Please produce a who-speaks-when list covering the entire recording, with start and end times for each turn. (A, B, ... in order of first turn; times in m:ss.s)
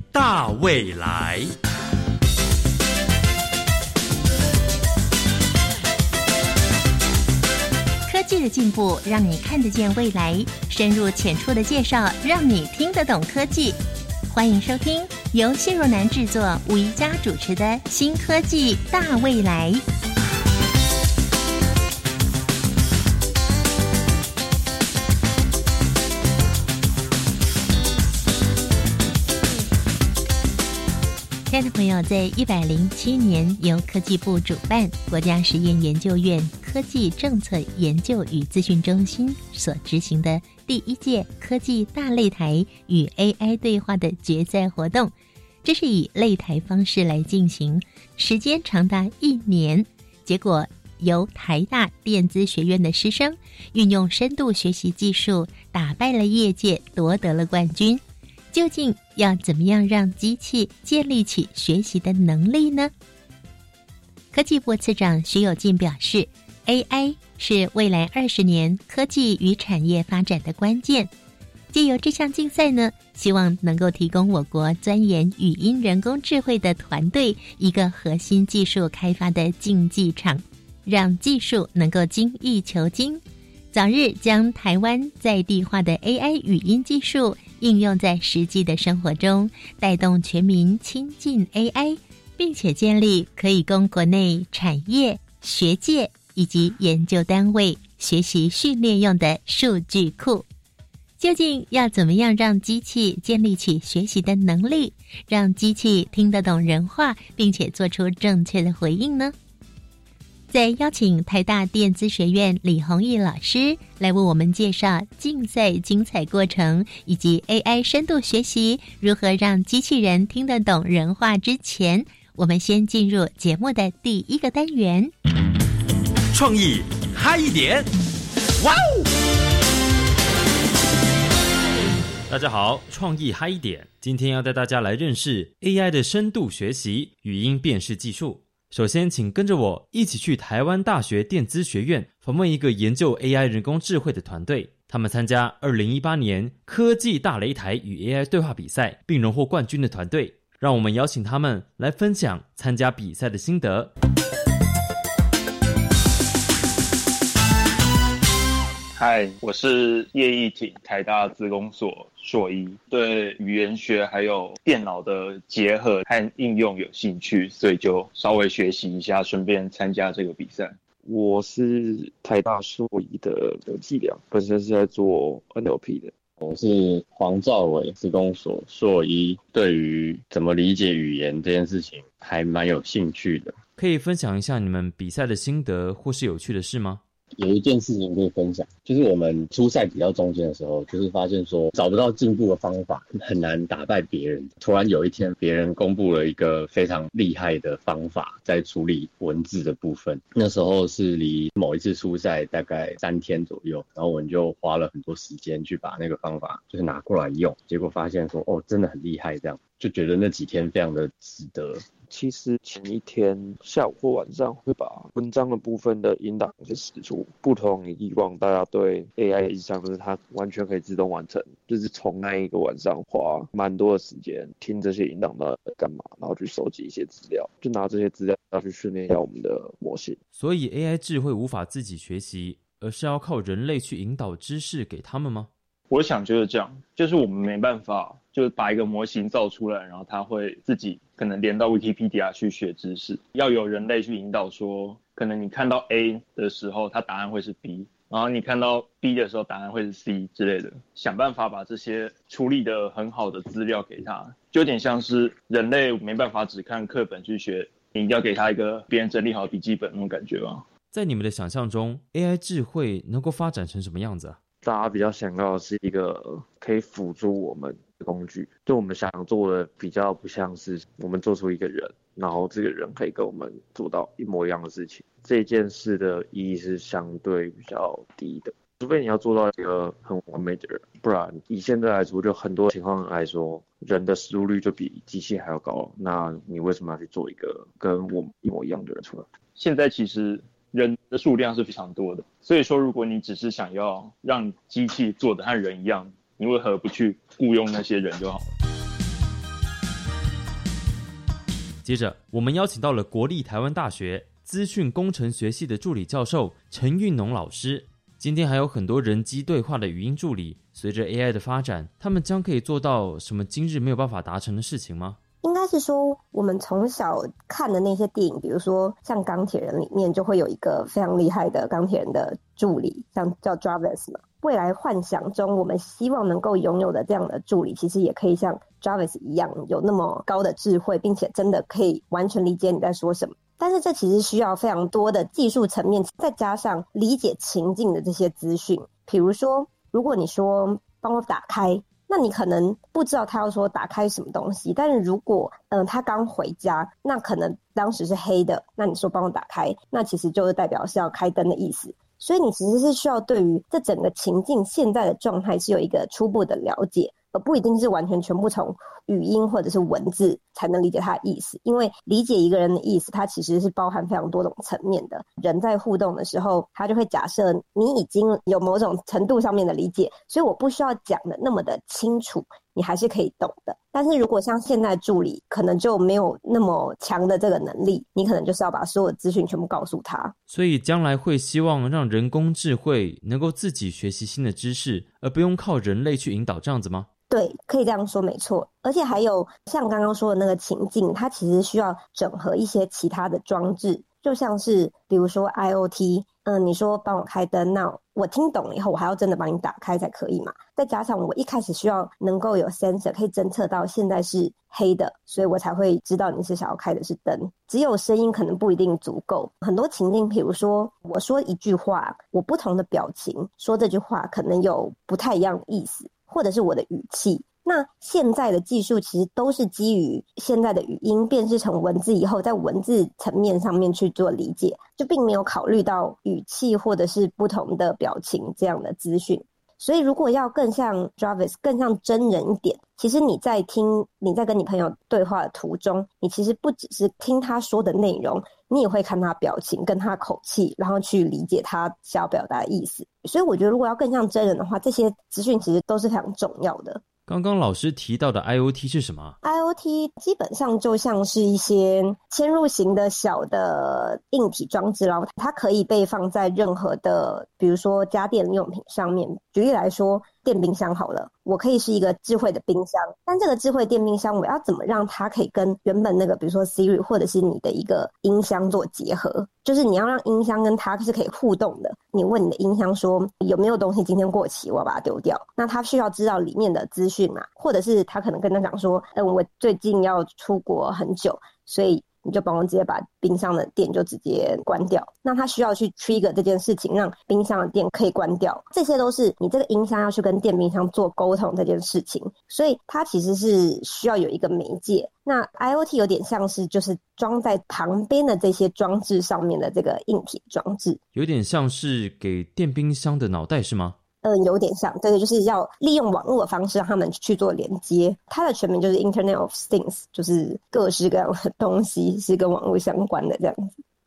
0:08.1-0:13.8 A
0:14.3-0:19.8 A
0:31.5-0:45.1 A
0:45.6-1:02.9 A
1:04.3-1:11.1 A
1:11.7-1:23.2 A
1:23.7-1:40.4 A
1:41.2-1:49.3 A
1:50.5-2:05.1 A
2:12.3-2:33.9 B
2:39.0-2:50.8 C
2:51.0-2:56.2 D
2:56.4-3:03.6 E
3:03.8-3:07.0 B
3:07.4-3:31.9 E
3:32.1-3:50.2 D
3:50.3-3:55.5 B
3:55.9-4:20.6 C
4:20.9-4:24.4 B
4:24.6-4:49.3 D
4:49.5-4:58.4 C
5:01.8-5:15.2 B
5:15.4-6:20.3 F
6:20.5-6:27.1 B
6:27.3-7:27.0 F
7:27.3-7:29.4 B
7:29.4-8:21.0 F
8:21.1-8:24.0 B
8:24.2-8:33.7 F